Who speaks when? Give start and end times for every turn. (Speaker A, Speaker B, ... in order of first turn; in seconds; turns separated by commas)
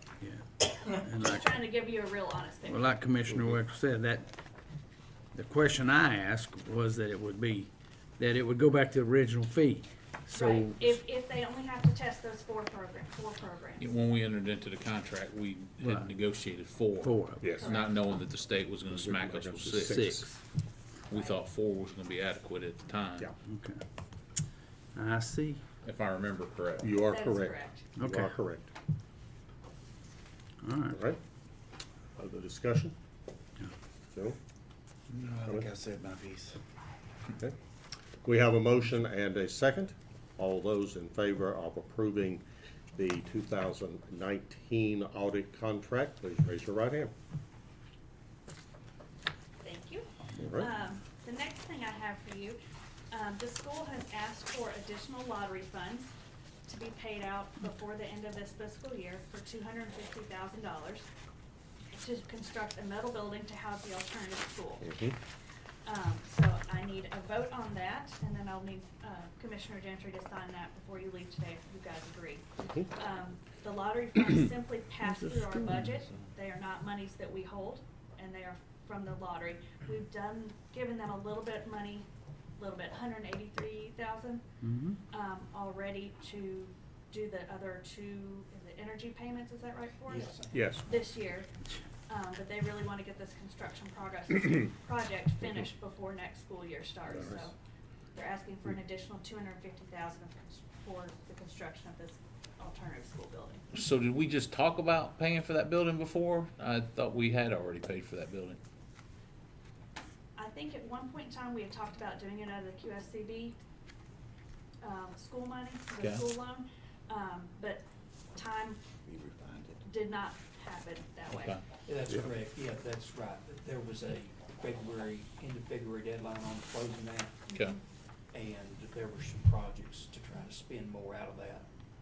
Speaker A: 0.2-1.6, Speaker B: 1.2-2.9, Speaker A: 2.7-4.3, Speaker A: 5.3-11.0, Speaker B: 10.3-13.9, Speaker C: 13.8-20.2, Speaker A: 15.8-16.1, Speaker A: 17.0-17.5, Speaker D: 17.4-17.7, Speaker B: 17.6-17.9, Speaker D: 18.9-20.3, Speaker A: 19.8-20.3, Speaker C: 21.1-23.3, Speaker A: 23.5-23.8, Speaker A: 24.9-25.6, Speaker C: 25.8-26.9, Speaker D: 26.8-28.7, Speaker B: 27.1-27.9, Speaker A: 28.0-28.4, Speaker A: 30.6-31.0, Speaker D: 30.9-31.2, Speaker D: 32.2-33.0, Speaker D: 34.1-34.4, Speaker E: 35.1-36.6, Speaker D: 35.5-35.7, Speaker D: 38.2-47.1, Speaker B: 49.6-52.6, Speaker D: 50.4-50.7, Speaker B: 53.1-56.1, Speaker B: 56.7-61.1, Speaker B: 61.9-65.0, Speaker D: 64.8-65.2, Speaker B: 65.8-82.1, Speaker A: 75.0-76.0, Speaker B: 82.6-84.4, Speaker A: 84.6-85.0, Speaker B: 85.1-91.5, Speaker F: 90.1-90.7, Speaker D: 90.5-90.8, Speaker B: 92.1-97.5, Speaker B: 98.1-103.7, Speaker C: 103.7-108.6, Speaker B: 110.4-113.6, Speaker B: 114.8-118.8, Speaker E: 119.1-119.8, Speaker B: 119.8-121.6, Speaker C: 121.3-121.6, Speaker F: 121.8-127.5, Speaker B: 127.5-127.8, Speaker F: 128.3-131.7